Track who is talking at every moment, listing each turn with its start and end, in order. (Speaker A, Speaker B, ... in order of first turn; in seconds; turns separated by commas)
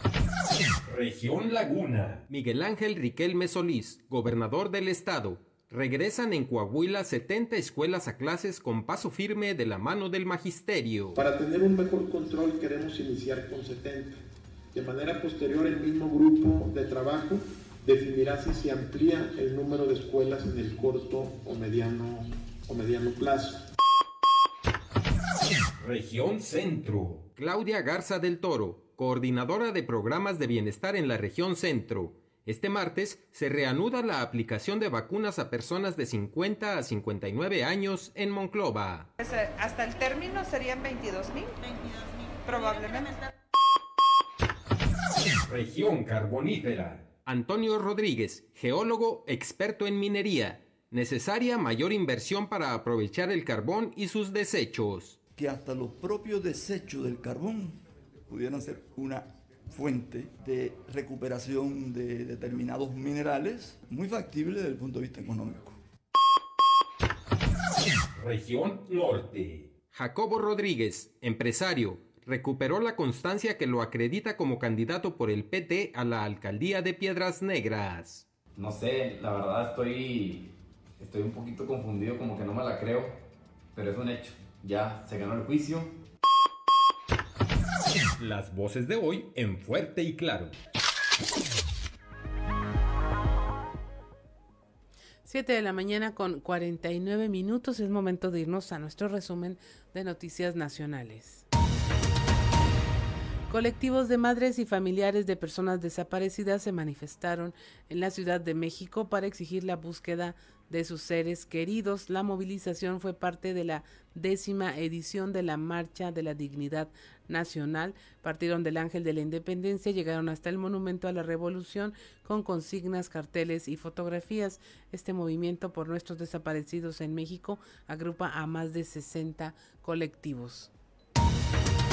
Speaker A: 0.8-11.2, Speaker B: 11.1-14.2, Speaker B: 14.7-23.7, Speaker A: 25.8-39.1, Speaker C: 39.2-41.5, Speaker C: 42.5-43.1, Speaker A: 45.5-55.2, Speaker D: 55.3-65.8, Speaker A: 68.1-78.2, Speaker E: 78.5-83.2, Speaker E: 83.7-86.0, Speaker A: 88.2-90.5, Speaker F: 95.2-101.4, Speaker F: 103.5-130.7